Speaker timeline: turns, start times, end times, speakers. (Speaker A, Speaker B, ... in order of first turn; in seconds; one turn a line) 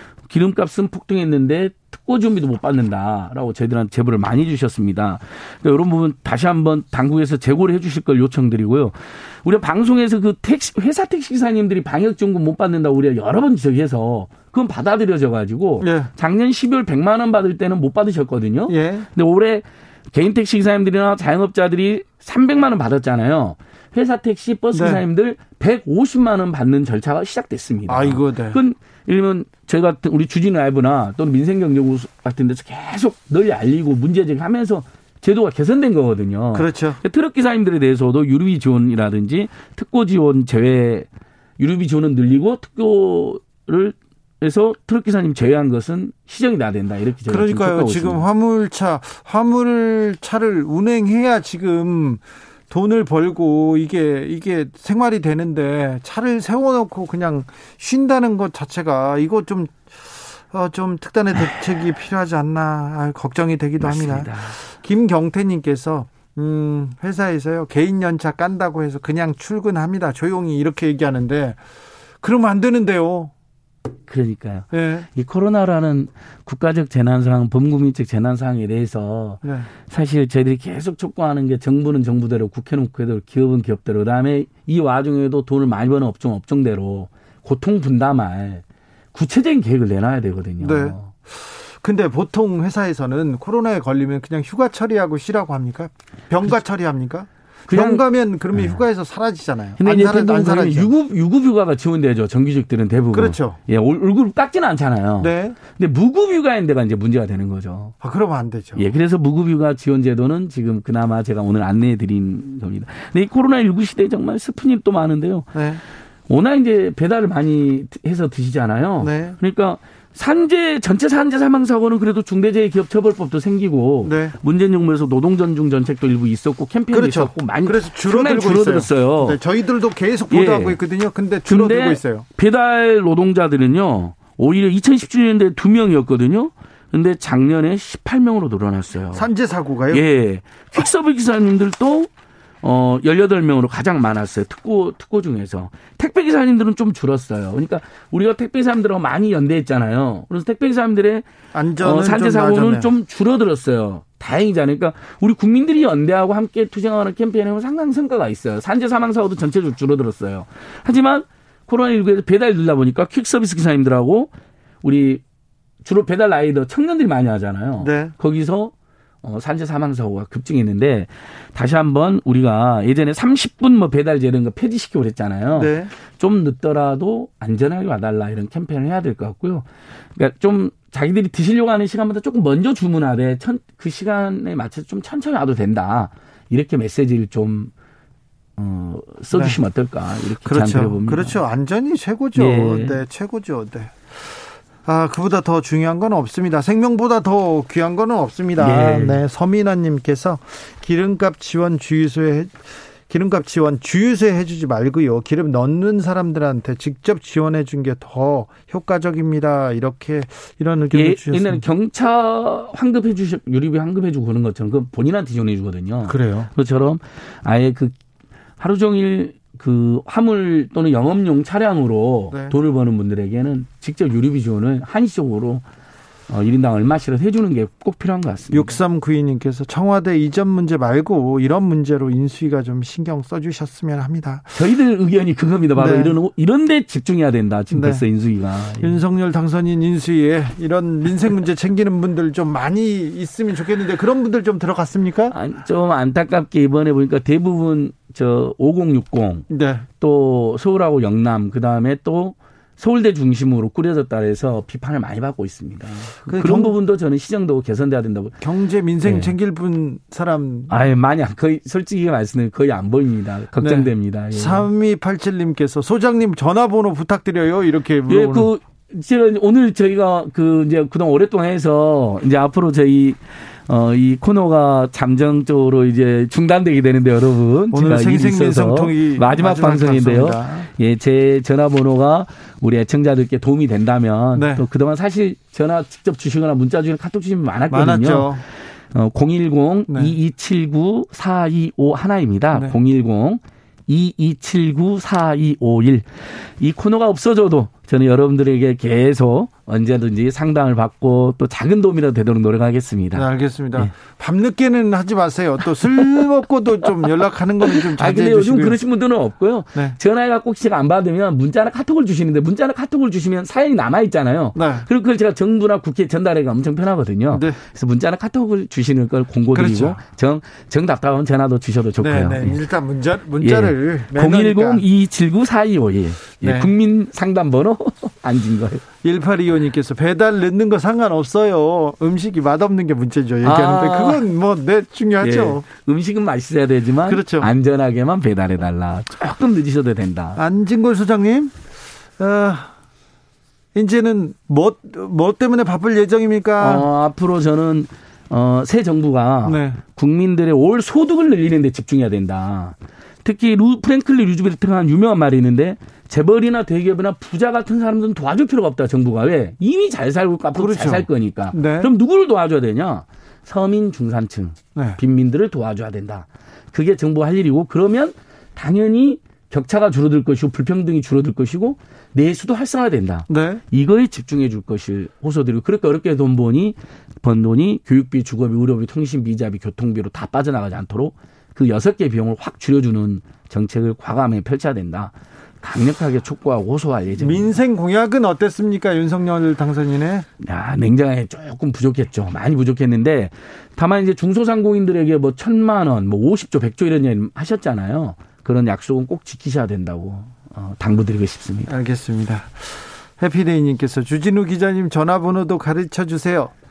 Speaker A: 0.3-41.1
Speaker B: 15.8-16.1
Speaker B: 18.7-19.1
Speaker B: 24.7-25.0
Speaker B: 27.9-28.6
Speaker B: 36.5-37.0
Speaker A: 41.6-48.2
Speaker B: 47.3-71.6
Speaker A: 63.8-64.5
Speaker B: 72.2-73.3
Speaker A: 74.1-88.6
Speaker B: 74.7-75.1
Speaker B: 79.4-79.7
Speaker A: 89.1-91.1
Speaker B: 90.6-100.9
Speaker A: 97.7-98.8
Speaker A: 99.8-107.9
Speaker B: 103.1-103.6
Speaker B: 105.2-105.6
Speaker B: 108.0-108.9
Speaker A: 108.8-115.6
Speaker B: 115.5-115.8
Speaker A: 116.3-129.4
Speaker B: 119.0-119.3
Speaker B: 124.0-124.3
Speaker B: 126.9-132.2
Speaker A: 130.3-130.8
Speaker A: 131.4-139.3
Speaker B: 139.1-140.0
Speaker A: 139.9-142.1
Speaker A: 142.6-151.2
Speaker B: 151.5-152.9
Speaker A: 151.8-164.3
Speaker A: 164.8-165.2
Speaker A: 165.8-187.7
Speaker B: 167.8-168.1
Speaker B: 175.6-175.9
Speaker A: 188.6-191.3
Speaker B: 190.4-211.6
Speaker A: 192.3-193.0
Speaker A: 198.6-199.2
Speaker A: 210.9-217.9
Speaker B: 216.1-216.5
Speaker A: 218.6-225.6
Speaker B: 222.3-222.6
Speaker A: 226.3-228.7
Speaker B: 228.5-234.6
Speaker A: 234.5-239.0
Speaker B: 235.8-236.1
Speaker B: 237.7-238.0
Speaker B: 238.8-245.3
Speaker A: 245.3-249.4
Speaker B: 249.5-249.8
Speaker A: 250.0-258.4
Speaker B: 256.2-256.8
Speaker B: 258.4-260.8
Speaker A: 259.0-259.3
Speaker A: 260.7-264.7
Speaker B: 263.6-268.5
Speaker A: 268.1-288.4
Speaker B: 277.7-280.7
Speaker B: 284.3-284.6
Speaker B: 287.7-288.4
Speaker A: 288.9-303.9
Speaker B: 289.9-290.1
Speaker B: 303.1-308.8
Speaker A: 305.9-306.2
Speaker A: 307.6-322.6
Speaker B: 314.5-314.9
Speaker B: 317.3-317.6
Speaker B: 319.5-320.0
Speaker B: 322.0-324.8
Speaker A: 323.4-328.9
Speaker B: 326.4-326.7
Speaker B: 329.0-335.6
Speaker A: 333.4-334.2
Speaker A: 335.2-340.4
Speaker B: 337.1-337.5
Speaker B: 340.4-341.6
Speaker B: 342.2-342.7
Speaker B: 343.7-346.9
Speaker A: 346.6-387.5
Speaker B: 349.4-349.8
Speaker B: 360.6-361.9
Speaker B: 373.3-373.6
Speaker B: 387.2-390.3
Speaker A: 390.4-401.7
Speaker B: 401.7-406.5